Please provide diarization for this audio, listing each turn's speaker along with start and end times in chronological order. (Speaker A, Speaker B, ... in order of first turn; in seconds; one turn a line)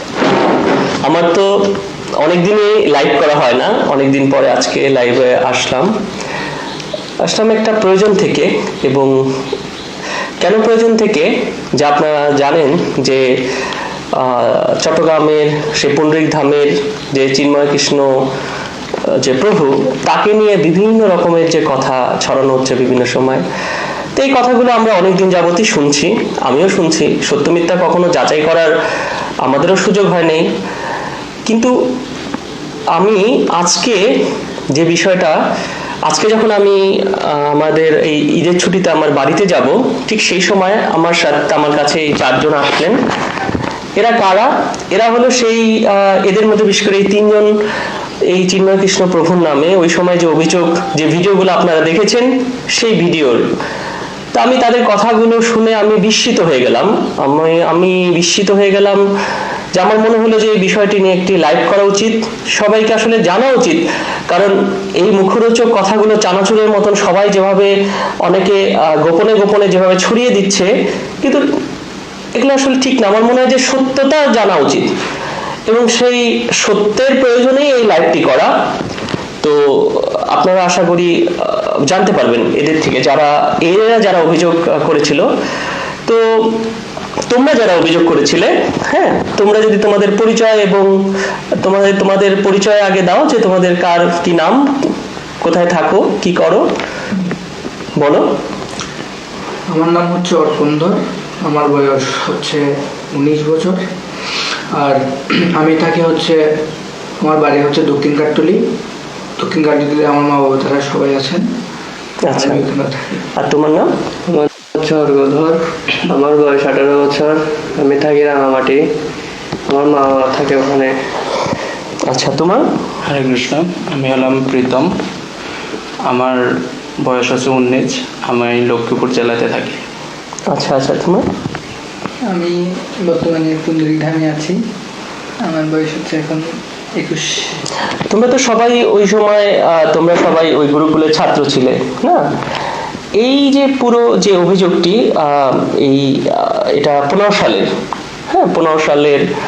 Speaker A: 0.2-1.5
Speaker A: 2.2-5.9
Speaker A: 7.2-9.1
Speaker A: 10.4-13.3
Speaker A: 14.1-18.1
Speaker A: 19.2-23.4
Speaker A: 24.1-28.7
Speaker A: 29.4-30.4
Speaker A: 31.4-31.8
Speaker A: 33.0-34.0
Speaker A: 34.7-35.4
Speaker A: 36.0-43.0
Speaker A: 44.0-47.5
Speaker A: 48.2-53.5
Speaker A: 54.3-59.0
Speaker A: 59.7-67.7
Speaker A: 68.2-70.7
Speaker A: 72.3-74.9
Speaker A: 75.7-78.5
Speaker A: 79.4-85.3
Speaker A: 86.0-86.6
Speaker A: 87.3-90.9
Speaker A: 91.6-94.7
Speaker A: 95.4-96.7
Speaker A: 98.0-98.3
Speaker B: 99.7-103.8
Speaker B: 104.7-106.5
Speaker B: 107.2-108.6
Speaker B: 109.4-111.5
Speaker A: 112.2-112.6
Speaker B: 112.3-113.2
Speaker A: 113.3-113.9
Speaker C: 114.3-118.8
Speaker C: 119.7-120.9
Speaker A: 122.1-122.7
Speaker D: 123.0-124.9
Speaker D: 126.0-126.4
Speaker D: 127.0-129.8
Speaker A: 130.5-131.2
Speaker E: 132.3-134.6
Speaker E: 135.4-137.5
Speaker A: 138.1-142.2
Speaker A: 143.2-147.7
Speaker A: 148.3-149.3